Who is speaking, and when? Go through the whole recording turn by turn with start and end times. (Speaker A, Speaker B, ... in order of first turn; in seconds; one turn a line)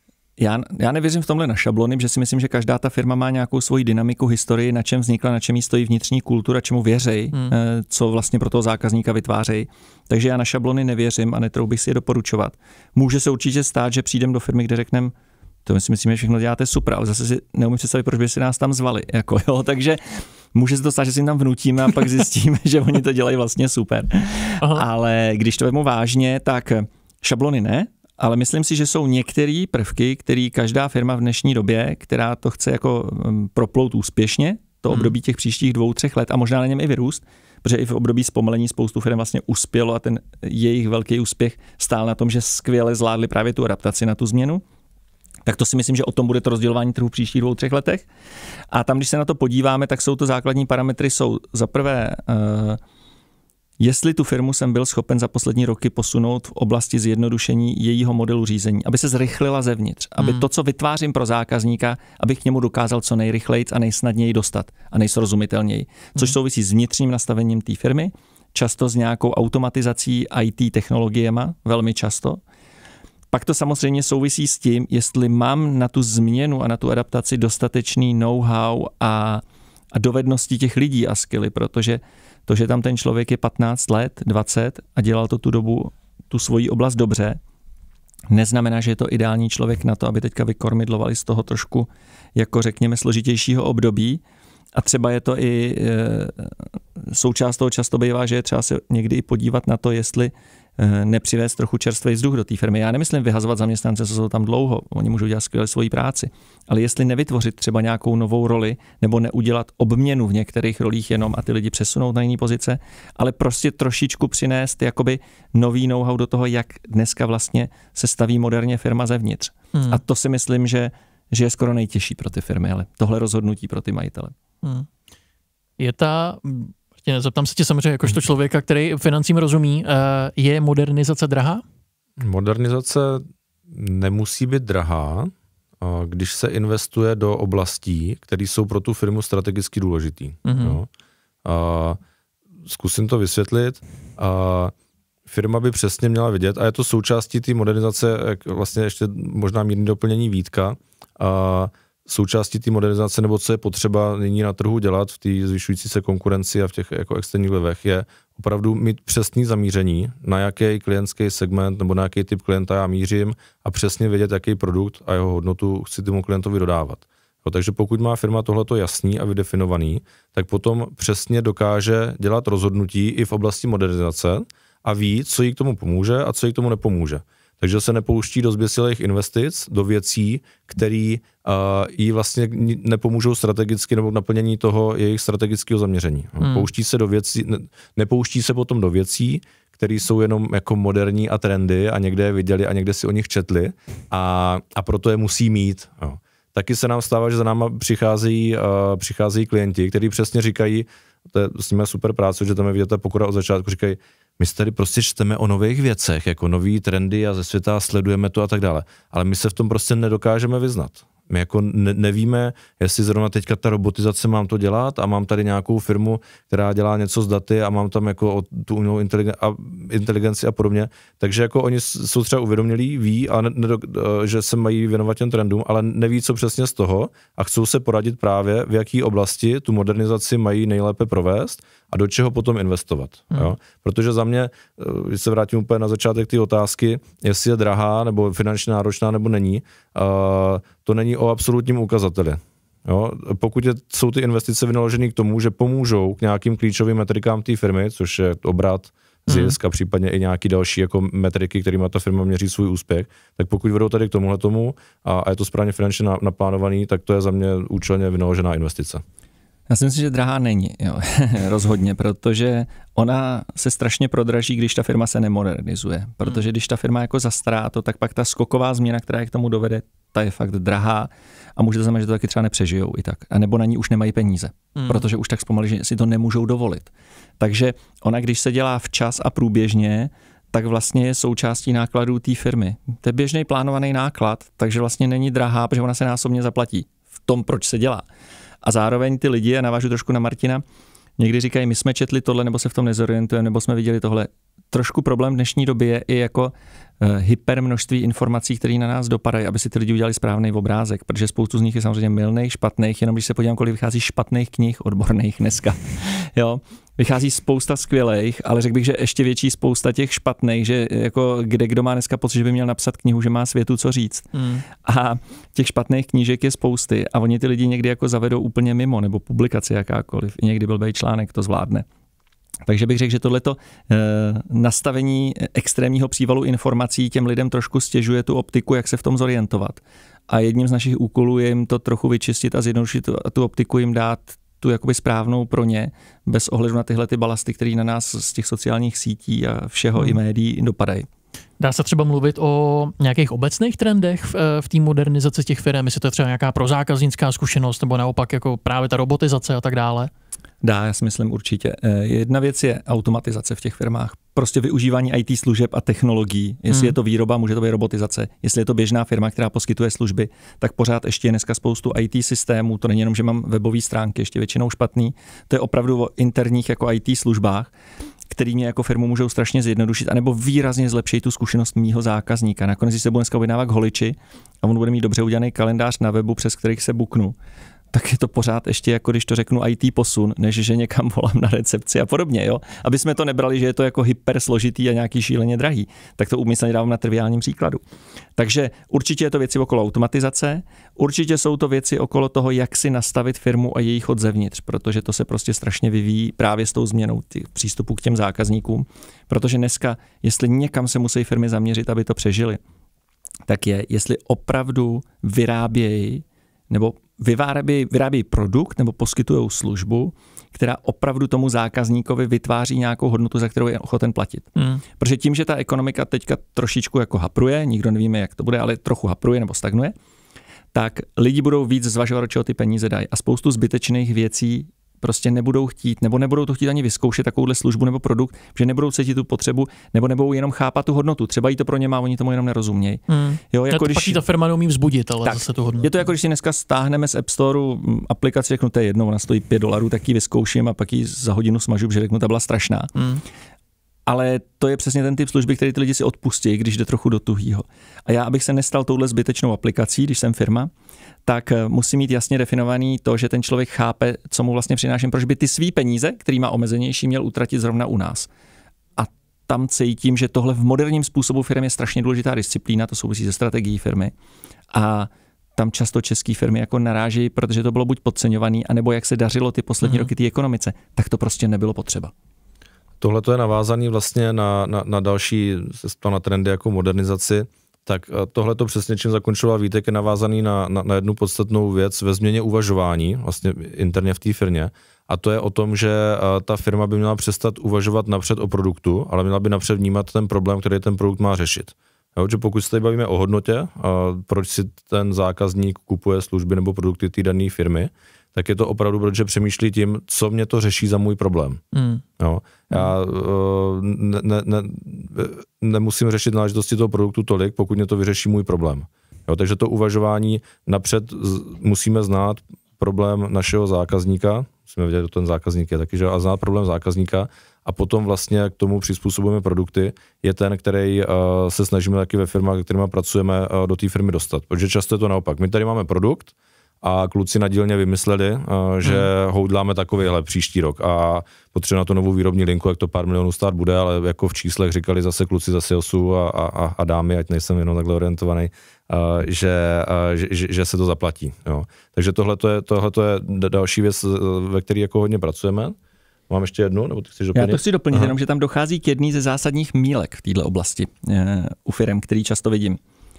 Speaker A: 0.4-15.1
Speaker A: 15.7-44.6
Speaker B: 34.9-35.1
Speaker A: 45.4-48.1
Speaker A: 48.7-52.8
Speaker A: 53.8-72.4
Speaker B: 60.2-60.4
Speaker A: 73.3-79.4
Speaker A: 79.9-87.4
Speaker A: 88.3-94.2
Speaker A: 94.8-124.3
Speaker B: 119.7-120.0
Speaker B: 125.8-131.6
Speaker C: 132.2-140.9
Speaker B: 140.4-140.8
Speaker C: 141.4-142.0
Speaker C: 142.7-144.7
Speaker C: 145.3-259.0
Speaker B: 186.4-186.7
Speaker B: 249.3-249.6
Speaker A: 259.7-288.1
Speaker B: 274.8-275.1
Speaker A: 288.6-290.6
Speaker A: 291.2-321.9
Speaker B: 314.3-314.7
Speaker A: 322.7-341.1
Speaker B: 341.6-350.1
Speaker A: 350.6-367.7
Speaker B: 356.7-356.9
Speaker A: 368.3-377.4
Speaker A: 377.9-387.8
Speaker A: 388.4-402.6
Speaker A: 403.5-419.9
Speaker B: 414.6-414.8
Speaker A: 420.7-434.2
Speaker B: 433.1-435.9
Speaker A: 435.2-442.9
Speaker B: 442.9-443.2
Speaker A: 444.1-450.7
Speaker A: 451.3-458.3
Speaker A: 459.0-464.1
Speaker A: 464.7-472.1
Speaker B: 469.8-470.1
Speaker C: 473.0-501.6
Speaker B: 501.7-502.0
Speaker C: 502.2-545.8
Speaker B: 528.8-529.1
Speaker C: 546.3-548.1
Speaker A: 547.3-552.8